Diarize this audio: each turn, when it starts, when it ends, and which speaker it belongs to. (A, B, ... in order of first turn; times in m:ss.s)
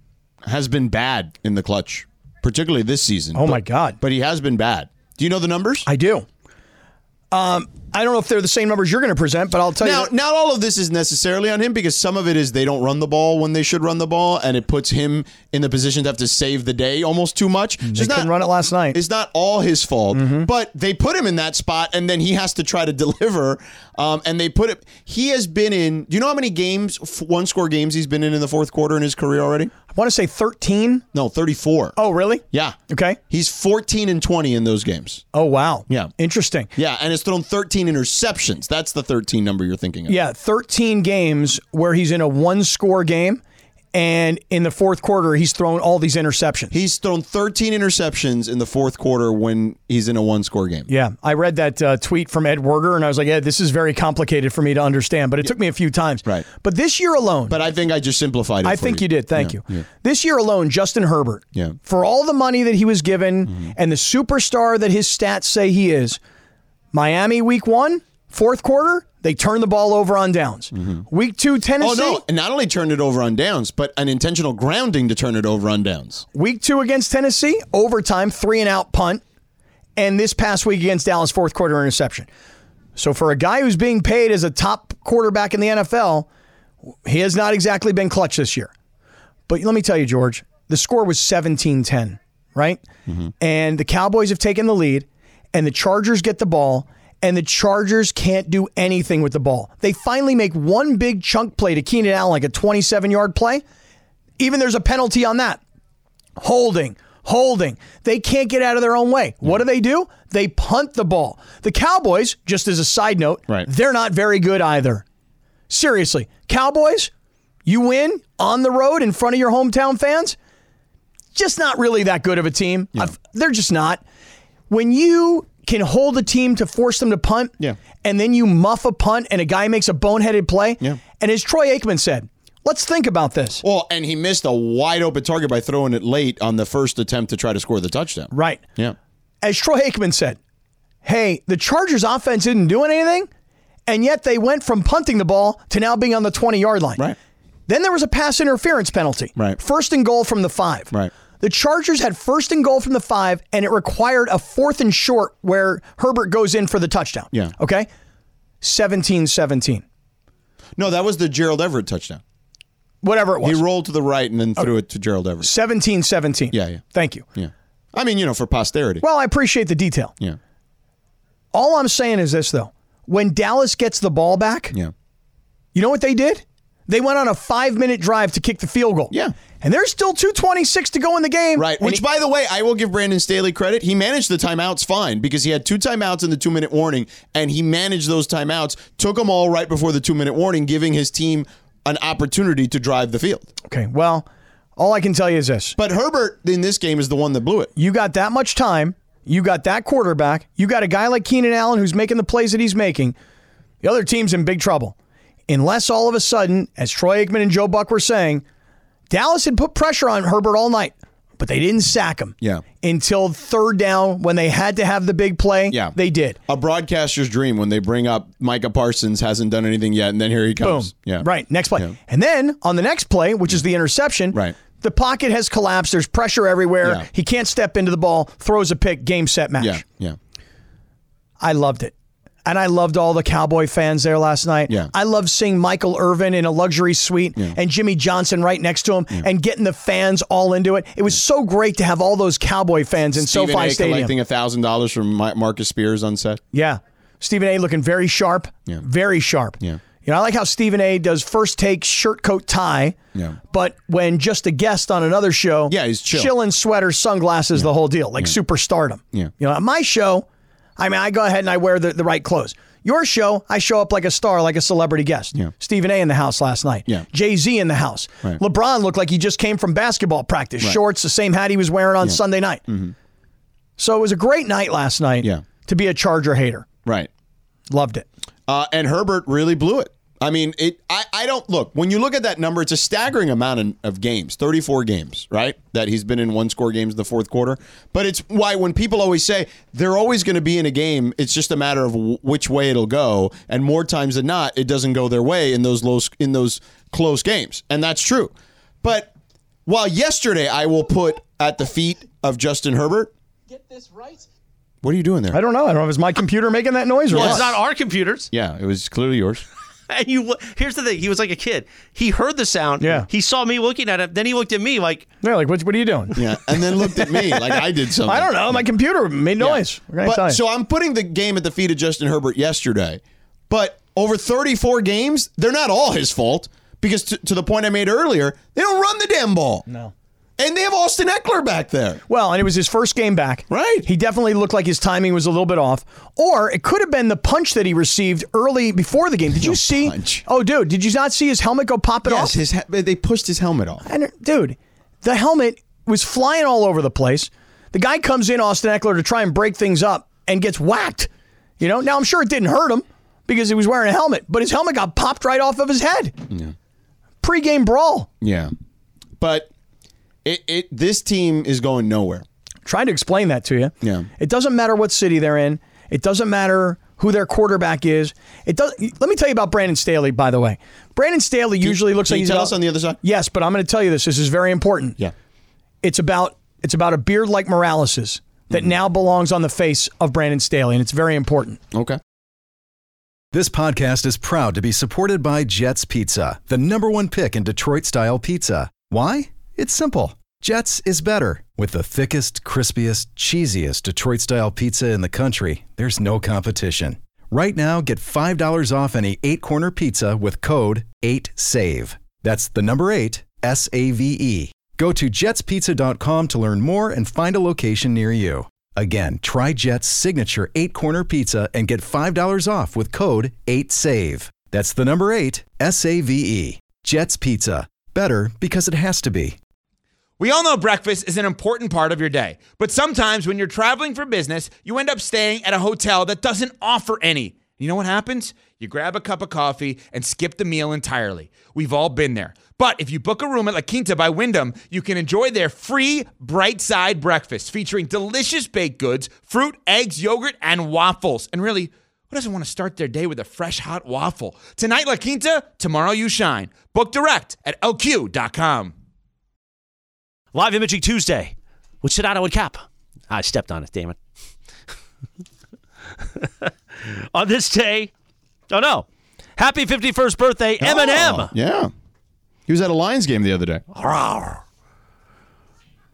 0:00.4-0:05.9 A
0:03.4-0:04.0 B
0:05.9-0:06.3 B
0:07.3-0:10.1 B
0:09.8-0:18.4 A
0:17.9-0:19.0 B
0:18.9-0:29.7 A
0:20.1-0:20.5 B
0:29.9-0:31.0 B
0:31.1-0:32.0 A
0:32.0-0:33.2 B
0:32.5-0:32.8 A
0:33.3-0:35.2 A
0:35.3-0:36.7 B
0:36.8-0:40.2 A
0:40.1-0:43.4 B
0:43.9-0:46.7 B
0:46.7-0:50.9 A
0:50.9-0:57.6 B
0:57.5-0:59.8 A
0:58.6-1:06.2 B
1:03.5-1:03.7 A
1:06.9-1:12.2 B
1:10.7-1:11.0 A
1:11.8-1:16.2 A
1:16.3-1:19.2 B
1:20.0-1:22.3 B
1:23.0-1:26.3 B
1:27.0-1:28.7 B
1:29.5-1:32.8 B
1:33.4-1:43.6 B
1:44.4-1:45.6 B
1:46.4-1:55.0 B
1:55.7-1:57.1 B
1:57.7-2:00.4 B
2:01.3-2:04.0 B
2:04.7-2:13.6 B
2:13.6-2:19.0 A
2:18.3-2:18.7 B
2:19.4-2:20.4 B
2:21.0-2:23.3 B
2:23.9-2:27.0 B
2:27.7-2:37.9 B
2:38.6-2:39.8 B
2:40.8-2:42.2 A
2:43.0-2:43.6 B
2:43.4-2:45.5 A
2:45.4-2:47.3 B
2:46.5-2:46.8 A
2:47.4-2:49.0 A
2:49.0-2:50.1 B
2:51.5-2:54.7 B
2:55.8-3:02.0 B
3:01.6-3:13.5 A
3:13.7-3:15.8 B
3:15.8-3:17.7 A
3:17.8-3:23.2 B
3:23.8-3:25.0 B
3:25.5-3:28.4 B
3:29.1-3:36.4 B
3:35.7-3:41.9 A
3:40.6-3:49.8 B
3:44.3-3:44.6 A
3:46.8-3:47.1 A
3:49.6-3:50.2 A
3:51.4-3:51.9 B
3:52.4-4:04.1 B
4:03.1-4:06.4 A
4:06.5-4:13.0 B
4:13.5-4:20.2 B
4:15.7-4:16.3 A
4:17.5-4:18.4 A
4:20.8-4:32.6 B
4:32.0-4:32.9 A
4:33.8-4:36.7 B
4:37.7-4:38.1 B
4:38.5-4:59.1 A
4:59.7-5:03.1 A
5:04.8-5:05.4 A
5:05.3-5:07.6 B
5:07.1-5:07.5 A
5:07.1-5:08.3 C
5:08.3-5:09.4 A
5:09.9-5:15.1 C
5:12.8-5:13.1 B
5:15.2-5:20.4 B
5:16.2-5:18.7 A
5:19.4-5:29.6 A
5:30.4-5:32.0 A
5:32.1-5:42.4 B
5:33.5-5:33.9 A
5:39.3-5:40.2 A
5:42.0-5:43.8 A
5:43.8-5:56.2 B
5:57.2-5:58.1 B
5:58.2-5:58.5 A
5:59.2-5:59.5 A
6:00.2-6:02.2 A
6:02.6-6:15.0 B
6:03.8-6:04.1 A
6:11.6-6:13.0 A
6:15.8-6:21.6 B
6:21.7-6:22.0 A
6:23.3-6:59.4 D
7:00.2-7:28.7 E
7:30.3-7:34.0 C
7:36.2-7:37.9 C
7:38.5-7:38.9 C
7:39.4-7:41.3 C
7:40.6-7:41.7 A
7:42.5-7:43.6 A
7:43.7-7:44.4 C